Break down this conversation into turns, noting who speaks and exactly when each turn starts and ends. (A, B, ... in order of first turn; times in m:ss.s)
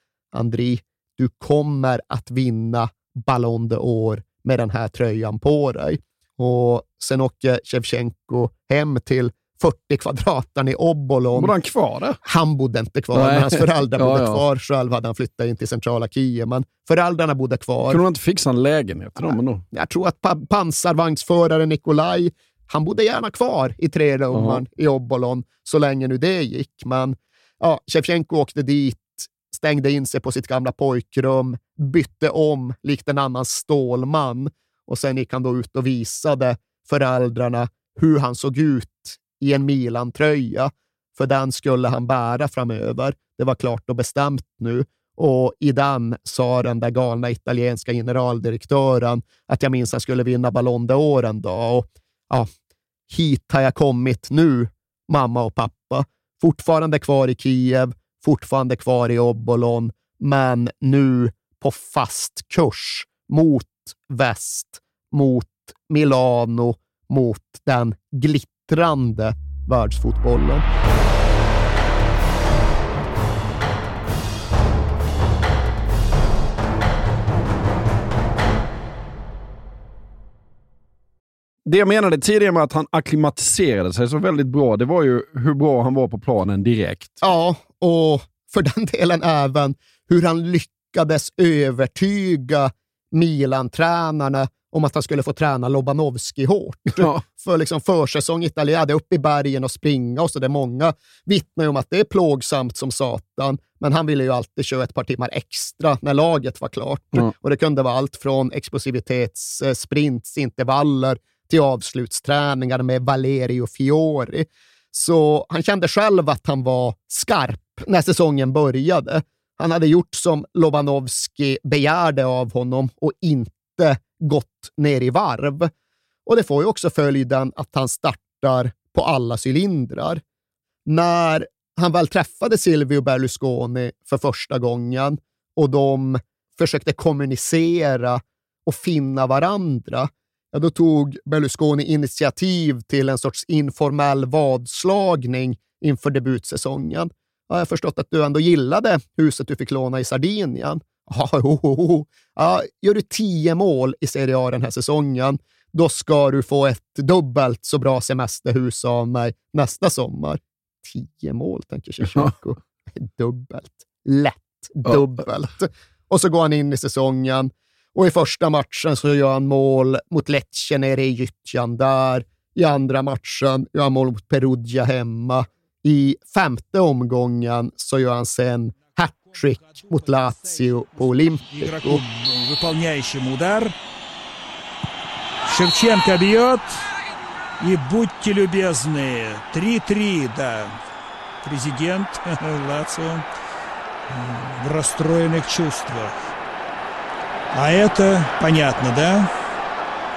0:00.3-0:11.5 A
0:11.3-0:12.2 B
0:12.2-0:18.0 A
0:13.1-0:14.4 B
0:17.9-0:19.6 B
0:19.7-0:52.5 A
0:24.3-0:24.6 B
0:53.1-1:10.6 A
1:21.6-1:27.2 B
1:27.2-2:05.7 A
1:37.0-1:37.2 B
2:06.2-2:10.2 A
2:10.8-3:02.0 A
3:01.5-3:03.8 C
3:05.4-3:06.9 C
3:07.6-3:10.8 C
3:11.4-3:13.2 C
3:14.1-3:16.2 C
3:17.5-3:19.3 C